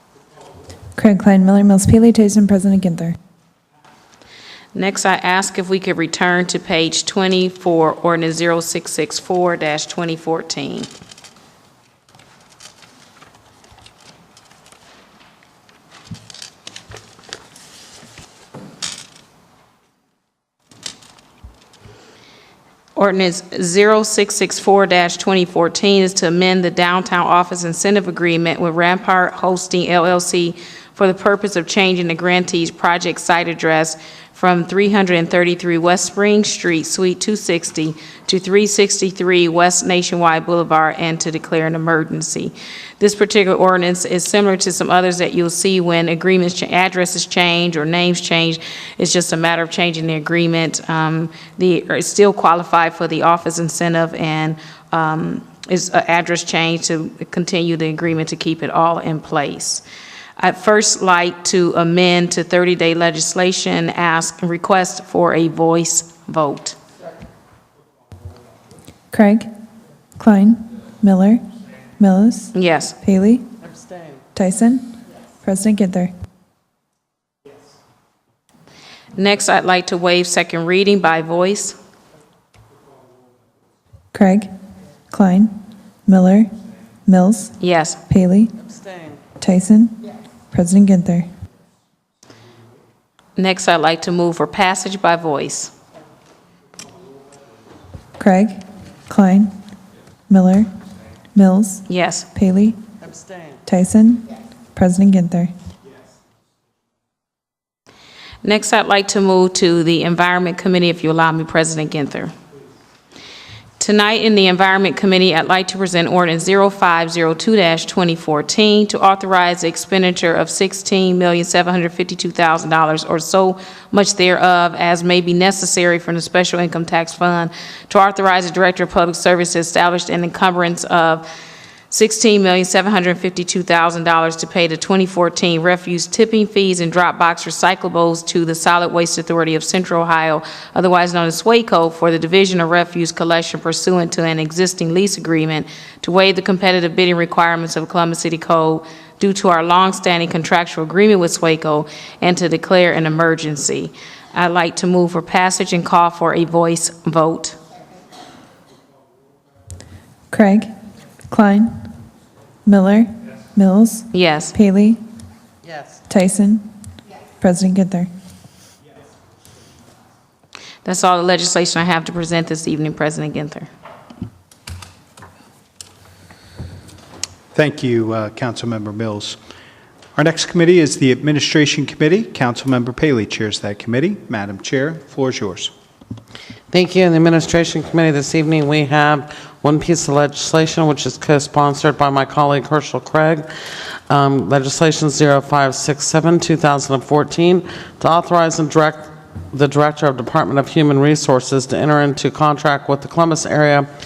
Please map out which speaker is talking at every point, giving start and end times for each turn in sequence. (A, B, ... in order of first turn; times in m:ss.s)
0:01.0-0:03.2 A
0:04.8-0:10.9 B
0:23.0-0:59.8 B
1:00.4-1:06.8 B
1:09.1-1:09.5 A
1:10.2-1:11.4 A
1:12.0-1:13.5 A
1:12.5-1:13.0 B
1:13.6-1:14.2 C
1:14.4-1:16.1 A
1:19.2-1:21.8 B
1:24.1-1:24.5 A
1:25.1-1:26.5 A
1:27.1-1:27.6 A
1:27.6-1:28.0 B
1:28.1-1:28.5 A
1:28.6-1:29.2 C
1:29.4-1:30.0 A
1:30.5-1:31.3 A
1:33.4-1:35.7 B
1:38.2-1:39.5 A
1:40.3-1:40.7 A
1:41.3-1:42.8 A
1:41.9-1:42.3 B
1:43.0-1:43.6 C
1:43.7-1:45.5 A
1:48.4-1:52.3 B
1:53.8-2:11.2 B
2:11.9-2:37.6 B
2:40.3-2:40.7 A
2:41.3-2:41.9 A
2:42.7-2:45.0 A
2:44.1-2:44.5 B
2:45.6-2:46.0 C
2:46.1-2:46.6 A
2:47.4-2:48.1 A
2:50.8-2:53.7 B
2:57.5-2:59.4 D
3:00.2-3:05.7 D
3:06.7-3:13.5 C
3:14.1-3:23.9 C